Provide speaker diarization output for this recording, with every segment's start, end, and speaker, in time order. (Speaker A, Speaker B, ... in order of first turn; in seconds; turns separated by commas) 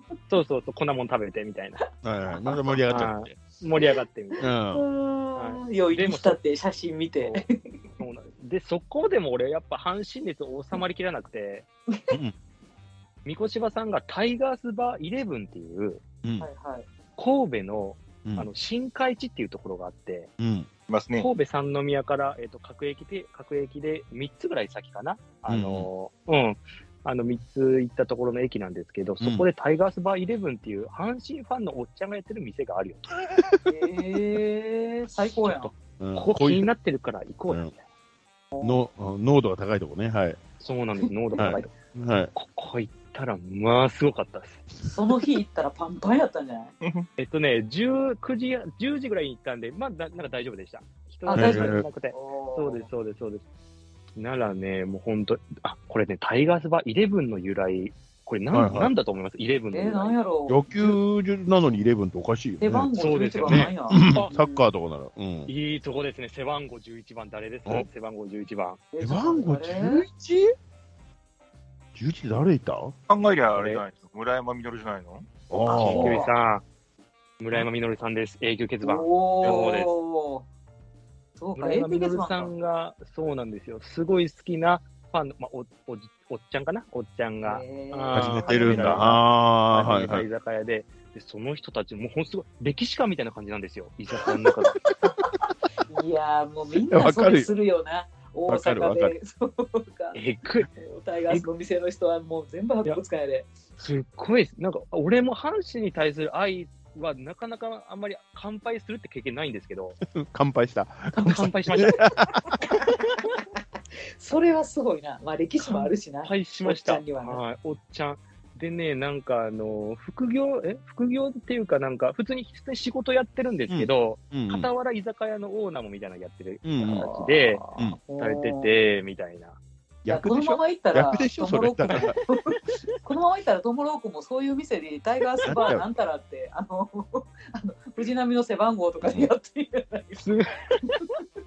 Speaker A: 0.3-1.8, Speaker B: 2.0-3.4, Speaker C: 2.3-2.6, Speaker A: 2.9-4.5, Speaker C: 4.4-7.8, Speaker B: 4.4-4.9, Speaker A: 5.4-6.4, Speaker A: 7.2-7.5, Speaker A: 8.0-11.7, Speaker A: 13.2-16.0, Speaker C: 16.4-16.9, Speaker A: 17.2-20.3, Speaker B: 20.4-20.7, Speaker D: 20.9-21.3, Speaker A: 21.1-33.1, Speaker B: 25.5-25.9, Speaker B: 29.2-29.5, Speaker C: 33.7-35.7, Speaker A: 35.4-37.8, Speaker B: 36.0-36.7, Speaker B: 38.6-40.4, Speaker A: 40.6-41.7, Speaker C: 41.3-41.6, Speaker B: 41.4-42.3, Speaker A: 42.3-44.6, Speaker C: 44.9-46.7, Speaker D: 46.8-47.1, Speaker A: 47.2-53.4, Speaker C: 51.3-52.9, Speaker B: 51.3-51.9, Speaker A: 54.2-60.2, Speaker B: 58.5-58.9, Speaker C: 59.7-61.0, Speaker B: 60.5-62.9, Speaker C: 62.6-64.7, Speaker A: 63.0-64.3, Speaker B: 63.5-65.5, Speaker A: 65.5-68.8, Speaker C: 68.9-70.1, Speaker B: 69.0-70.5, Speaker B: 72.0-72.9, Speaker D: 73.1-75.3, Speaker A: 73.5-73.8, Speaker B: 75.5-76.3, Speaker C: 75.7-76.3, Speaker A: 75.7-76.7, Speaker A: 77.4-79.9, Speaker C: 78.8-80.5, Speaker C: 81.4-82.5, Speaker A: 81.6-94.8, Speaker C: 87.4-89.1, Speaker B: 88.1-90.3, Speaker C: 95.9-100.2, Speaker B: 96.9-97.5, Speaker B: 98.5-99.1, Speaker A: 100.1-100.7, Speaker C: 100.7-103.5, Speaker A: 103.8-110.0, Speaker B: 110.1-112.6, Speaker C: 111.2-113.4, Speaker A: 111.2-112.0, Speaker C: 114.2-117.4, Speaker A: 115.7-127.7, Speaker B: 123.7-124.7, Speaker B: 126.6-127.1, Speaker C: 126.9-128.7, Speaker A: 128.2-129.6, Speaker B: 130.0-132.2, Speaker C: 130.1-140.3, Speaker A: 131.9-132.8, Speaker B: 135.4-135.9, Speaker B: 139.0-139.3, Speaker A: 140.2-141.1